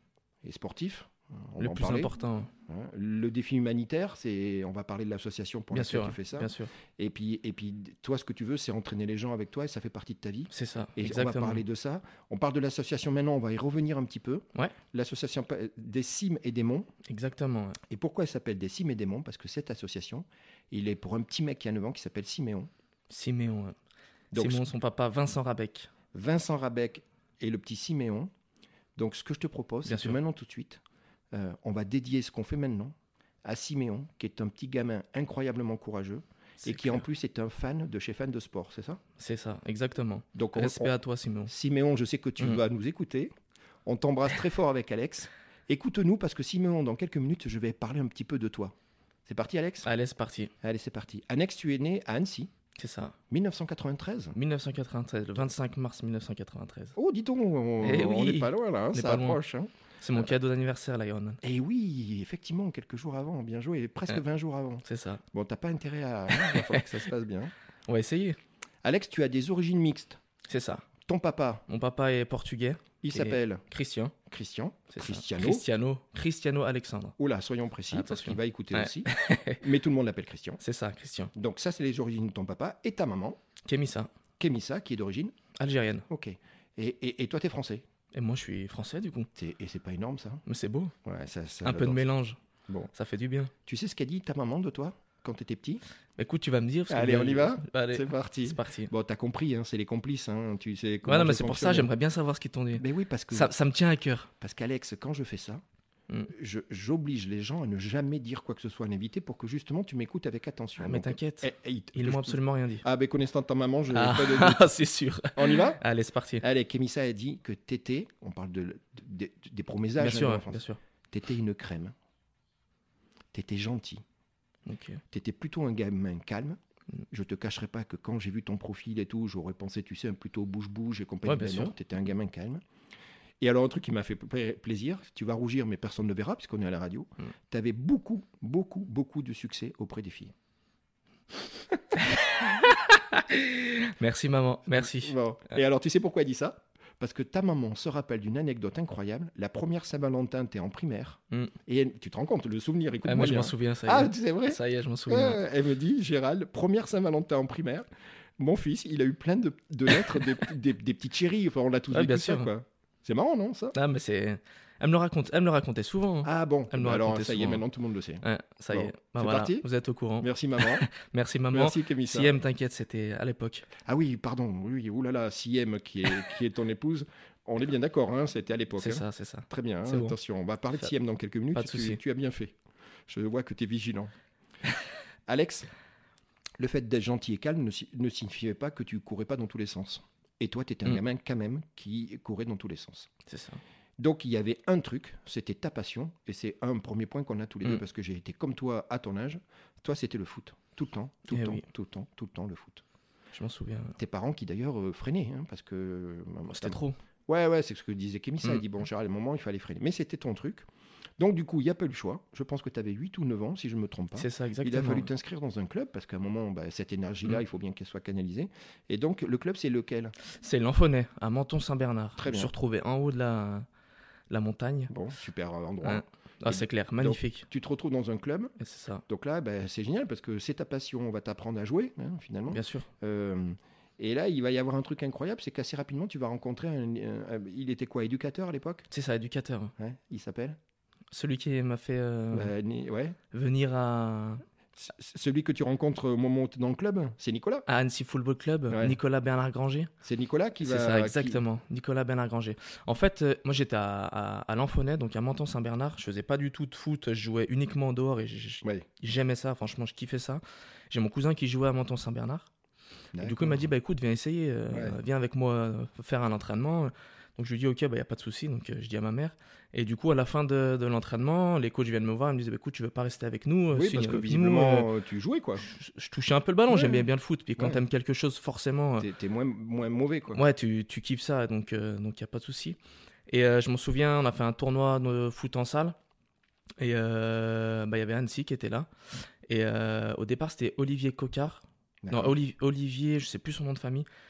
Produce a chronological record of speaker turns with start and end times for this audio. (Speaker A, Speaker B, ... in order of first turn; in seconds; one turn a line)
Speaker A: 0.4-2.1
Speaker B: 1.6-2.5
Speaker A: 2.6-16.9
Speaker B: 5.7-6.7
Speaker B: 10.5-11.6
Speaker B: 17.1-17.8
Speaker A: 17.9-22.7
Speaker B: 23.1-23.8
Speaker A: 24.3-24.7
Speaker B: 24.3-25.9
Speaker A: 26.1-28.3
Speaker A: 28.9-30.8
Speaker B: 29.8-30.2
Speaker A: 31.3-39.0
Speaker B: 36.6-37.0
Speaker B: 39.2-41.5
Speaker A: 40.3-40.9
Speaker A: 41.5-43.3
Speaker A: 43.8-48.8
Speaker A: 49.3-49.9
Speaker B: 49.8-50.5
Speaker A: 50.6-52.5
Speaker B: 52.8-53.2
Speaker A: 53.3-54.4
Speaker B: 54.3-57.0
Speaker A: 57.0-60.3
Speaker B: 57.8-59.4
Speaker B: 60.0-61.4
Speaker A: 61.4-67.5
Speaker B: 64.8-65.2
Speaker B: 66.3-66.9
Speaker B: 67.9-68.4
Speaker A: 68.8-70.2
Speaker B: 70.5-70.8
Speaker A: 71.0-71.6
Speaker B: 71.7-74.2
Speaker A: 73.0-73.6
Speaker A: 74.2-75.7
Speaker B: 74.9-77.1
Speaker A: 77.2-79.1
Speaker B: 77.9-79.6
Speaker A: 79.6-80.6
Speaker B: 80.6-81.3
Speaker A: 81.3-83.4
Speaker B: 83.7-84.1
Speaker A: 84.4-85.3
Speaker B: 85.5-86.1
Speaker A: 86.1-87.8
Speaker B: 88.1-89.3
Speaker A: 89.3-90.4
Speaker B: 90.5-90.9
Speaker A: 91.0-92.0
Speaker B: 91.6-92.4
Speaker B: 92.9-93.5
Speaker A: 93.7-95.8
Speaker B: 96.2-98.9
Speaker A: 96.9-101.9
Speaker B: 101.0-104.3
Speaker A: 102.8-103.5
Speaker A: 104.4-105.6
Speaker A: 106.3-114.7
Speaker B: 110.8-112.8
Speaker B: 113.9-116.4
Speaker A: 115.3-115.8
Speaker A: 116.4-121.9
Speaker B: 120.0-120.8
Speaker A: 123.3-124.0
Speaker B: 124.7-125.0
Speaker A: 125.1-126.6
Speaker A: 127.1-132.6
Speaker B: 131.2-131.7
Speaker A: 133.4-140.3
Speaker B: 142.4-145.6
Speaker A: 144.8-157.9
Speaker B: 153.0-155.4
Speaker A: 158.4-163.8
Speaker B: 161.9-162.5
Speaker B: 163.7-167.6
Speaker A: 166.2-169.7
Speaker B: 168.2-173.7
Speaker A: 170.2-170.9
Speaker A: 171.5-172.3
Speaker A: 173.8-182.5
Speaker B: 178.8-180.2
Speaker B: 181.5-182.0
Speaker A: 183.1-184.1
Speaker A: 185.3-185.7
Speaker A: 186.6-193.1
Speaker B: 193.3-193.6
Speaker A: 194.0-202.8
Speaker B: 201.3-201.6
Speaker B: 203.3-204.0
Speaker A: 204.0-210.7
Speaker B: 206.5-207.0
Speaker A: 211.2-220.1
Speaker B: 214.2-215.1
Speaker B: 220.4-223.7
Speaker A: 222.2-222.5
Speaker B: 224.3-224.9
Speaker A: 224.9-228.5
Speaker B: 225.8-227.5
Speaker B: 228.6-229.0
Speaker A: 229.1-238.9
Speaker B: 232.5-232.9
Speaker B: 238.9-239.7
Speaker A: 239.8-240.6
Speaker B: 241.1-242.5
Speaker A: 242.3-243.2
Speaker B: 243.3-244.4
Speaker A: 244.8-247.7
Speaker B: 247.7-249.9
Speaker A: 248.7-249.0
Speaker A: 250.0-251.4
Speaker B: 250.6-262.5
Speaker A: 263.1-263.7
Speaker B: 263.2-274.9
Speaker A: 264.7-265.0
Speaker A: 273.7-275.6
Speaker B: 275.6-279.1
Speaker A: 276.7-277.8
Speaker A: 279.0-280.4
Speaker B: 280.4-282.8
Speaker B: 283.3-286.0
Speaker B: 286.8-288.9
Speaker B: 289.5-294.1
Speaker A: 292.0-292.4